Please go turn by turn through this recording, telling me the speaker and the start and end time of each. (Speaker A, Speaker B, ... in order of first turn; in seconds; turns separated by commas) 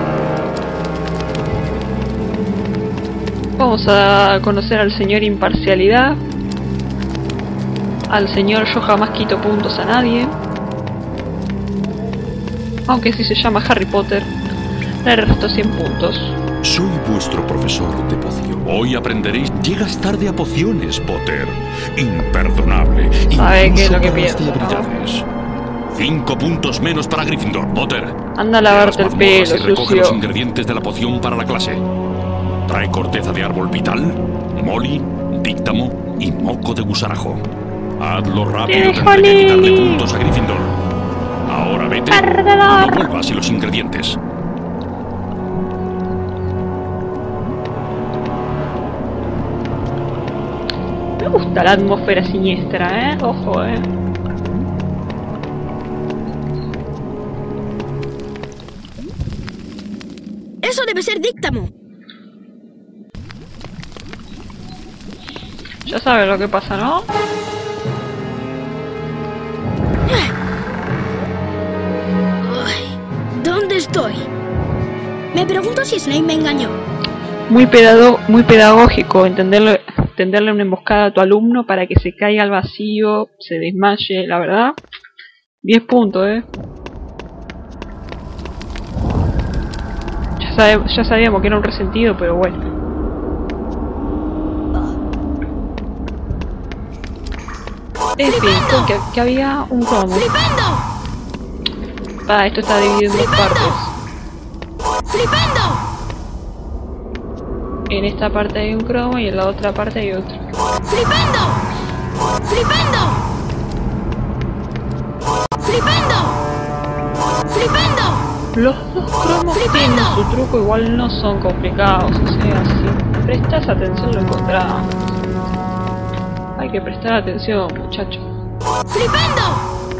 Speaker A: 3.6-6.2, Speaker A: 8.1-10.3, Speaker A: 12.9-14.3, Speaker A: 15.0-16.4, Speaker B: 16.6-25.2, Speaker A: 23.3-24.9, Speaker B: 25.9-28.1, Speaker A: 28.4-30.2, Speaker B: 28.7-31.8, Speaker B: 32.7-37.4, Speaker B: 38.0-40.7, Speaker A: 38.7-40.0, Speaker B: 41.5-44.2, Speaker A: 42.1-43.1, Speaker A: 51.2-53.9, Speaker C: 60.6-61.7, Speaker A: 65.8-67.1, Speaker C: 70.0-70.3, Speaker C: 72.4-74.3, Speaker C: 75.3-76.8, Speaker A: 77.5-84.8, Speaker A: 85.6-86.5, Speaker A: 90.4-92.6, Speaker A: 98.2-100.4, Speaker A: 102.2-103.9, Speaker A: 107.9-110.4, Speaker A: 118.5-125.0, Speaker A: 126.5-128.2